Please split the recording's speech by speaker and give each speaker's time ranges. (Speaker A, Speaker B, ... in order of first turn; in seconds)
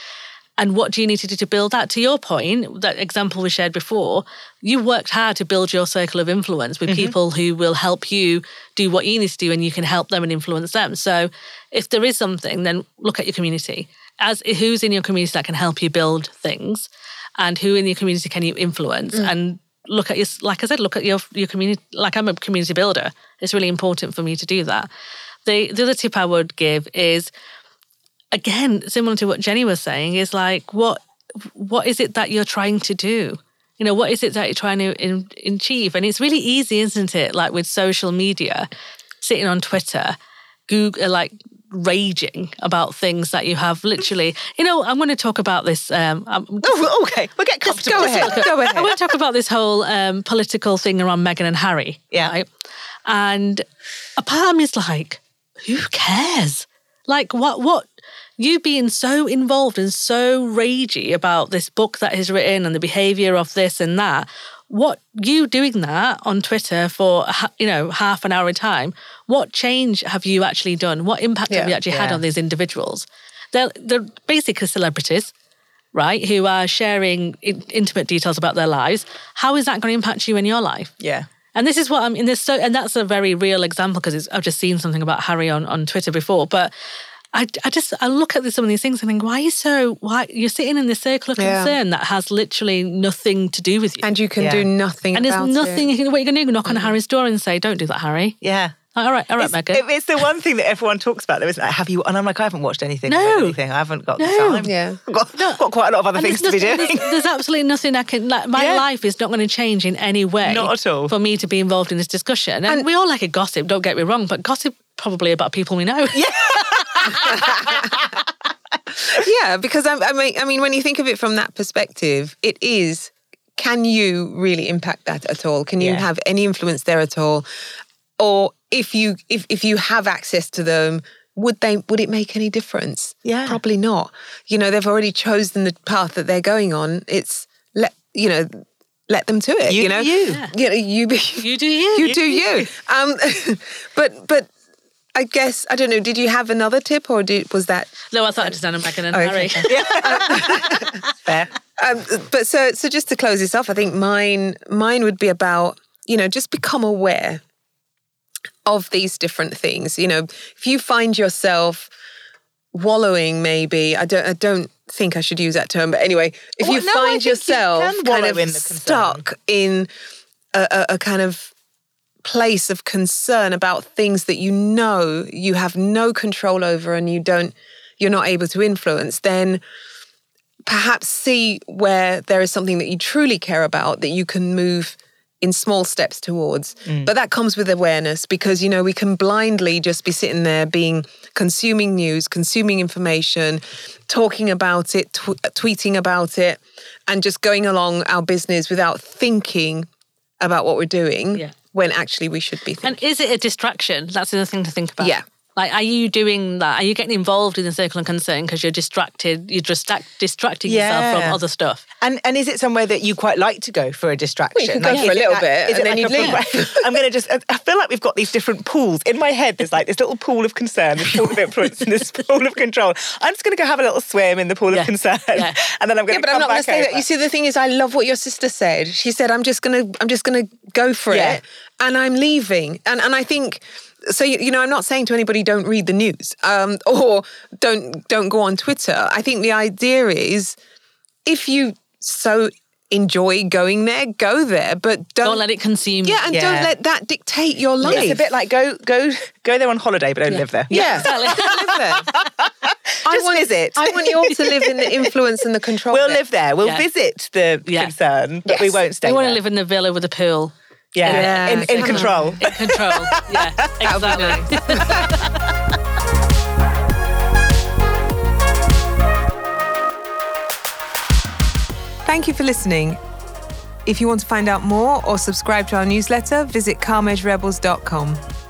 Speaker A: 0.6-24.9, 25.5-27.3, 28.3-38.7, 39.2-40.2, 40.7-46.9, 47.9-52.5, 53.1-53.7, 54.2-75.3, 75.9-80.9, 81.5-86.7, 87.3-94.1, 95.1-98.4, 98.9-99.8, 103.1-103.6, 104.2-104.7, 105.3-105.6, 106.2-116.3, 140.3-140.5, 141.4-142.4, 148.1-150.7, 202.8-211.8, 214.9-215.2, 224.7-225.6, 245.2-246.3, 250.3-251.7, 257.7-257.9, 259.0-265.4
Speaker B: 6.9-7.2, 46.6-48.5, 71.9-72.2, 81.0-81.3, 94.4-94.7, 98.4-98.8, 99.4-107.1, 108.6-108.8, 110.4-111.1, 116.1-118.0, 125.8-126.1, 133.2-133.6, 139.7-140.4, 142.1-142.7, 149.7-151.5, 166.6-169.2, 210.7-211.4, 212.0-227.1, 231.1-231.4, 246.3-246.7, 247.8-254.9, 255.9-259.4, 260.9-265.2
Speaker C: 47.7-48.9, 71.5-71.8, 91.4-91.8, 94.0-95.9, 96.7-96.9, 104.7-105.0, 117.2-118.0, 119.0-127.5, 128.2-144.5, 145.2-148.6, 149.1-151.0, 151.8-157.4, 158.7-161.9, 162.7-169.9, 170.5-171.5, 172.2-179.6, 180.7-199.9, 200.4-203.0, 214.6-216.8, 226.1-240.6, 241.3-245.4, 246.1-248.2, 250.7-252.2, 253.1-256.2, 258.5-258.8, 261.0-262.4, 263.8-265.1, 272.1-273.0, 273.9-278.2